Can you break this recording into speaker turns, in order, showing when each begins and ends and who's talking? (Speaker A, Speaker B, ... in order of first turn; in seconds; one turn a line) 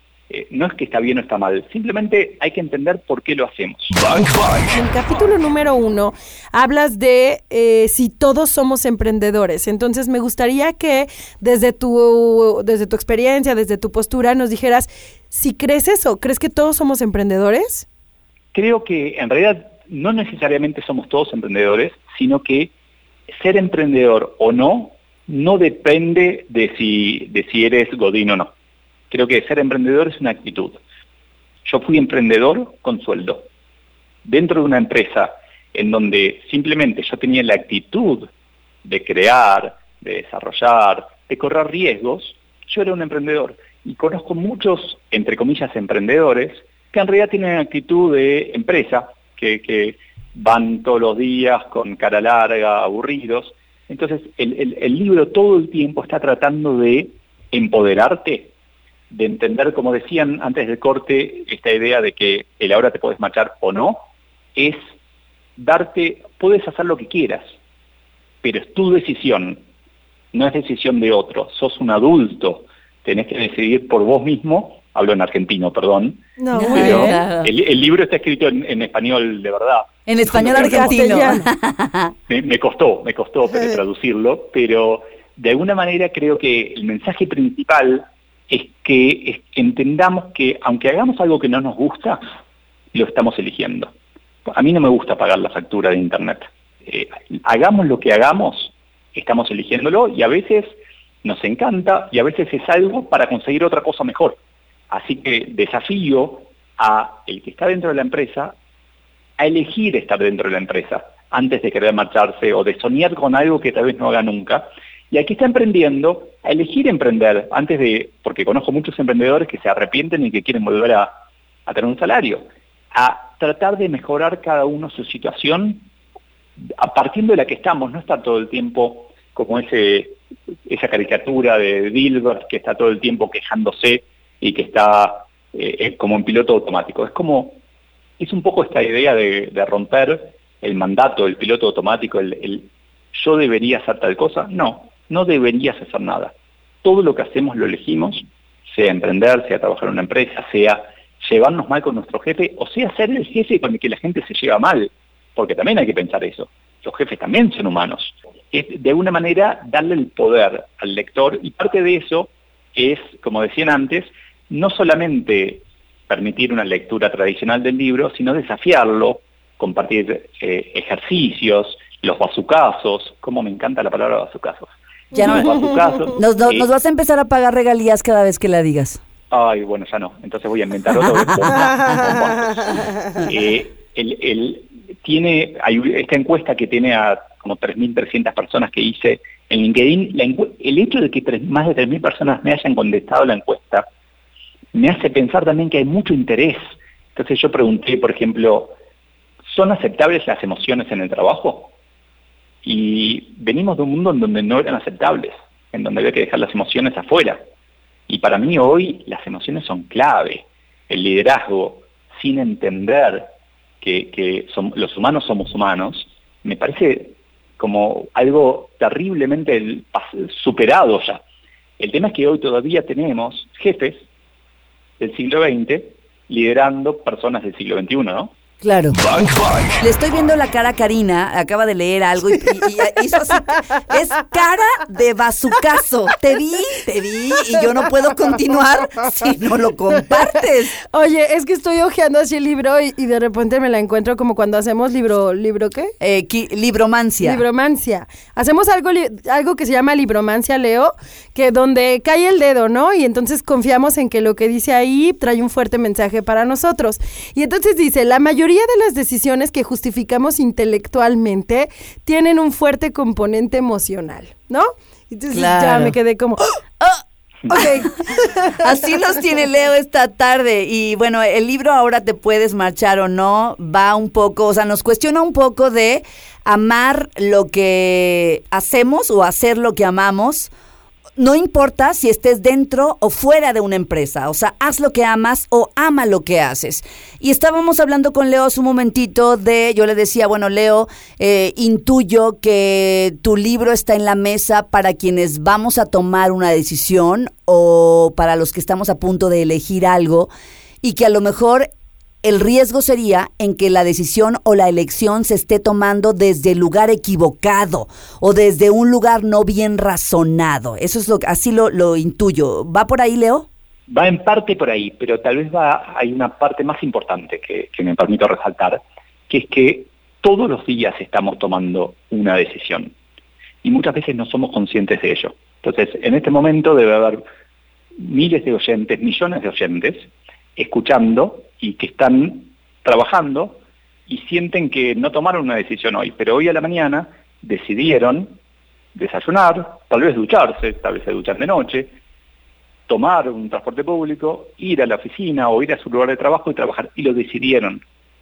Speaker A: 0.3-3.9
Speaker B: 4.7-17.9
Speaker A: 18.5-22.7
Speaker A: 23.3-28.5
Speaker A: 29.1-30.8
Speaker A: 31.6-33.5
Speaker A: 34.2-38.3
Speaker A: 38.8-58.5
Speaker A: 59.1-64.0
Speaker A: 65.6-67.5
Speaker A: 68.4-69.6
Speaker A: 70.3-81.4
Speaker B: 76.4-77.2
Speaker C: 76.5-77.5
Speaker C: 80.1-82.1
Speaker B: 80.3-81.5
Speaker A: 82.3-92.2
Speaker A: 92.9-93.9
Speaker A: 94.5-104.4
Speaker A: 104.9-108.5
Speaker A: 109.4-121.1
Speaker A: 121.7-125.8
Speaker A: 126.7-137.6
Speaker A: 138.2-176.7
Speaker C: 175.1-175.6
Speaker C: 176.1-179.0
Speaker A: 179.3-193.8
Speaker C: 181.0-182.2
Speaker A: 194.7-198.7
Speaker A: 199.5-201.7
Speaker A: 202.6-207.4
Speaker A: 208.1-213.3
Speaker A: 213.8-221.2
Speaker A: 221.8-224.0
Speaker A: 225.0-228.3
Speaker C: 228.6-229.0
Speaker C: 229.8-240.8
Speaker B: 240.9-245.9
Speaker C: 246.0-247.4
Speaker B: 247.2-266.4
Speaker C: 265.3-265.9
Speaker B: 267.5-268.6
Speaker C: 268.6-280.5
Speaker C: 281.2-300.3
Speaker C: 300.8-301.7
Speaker C: 302.2-313.5
Speaker A: 313.9-322.9
Speaker A: 323.6-327.2
Speaker A: 328.0-338.4
Speaker A: 338.9-341.9
Speaker A: 342.9-347.8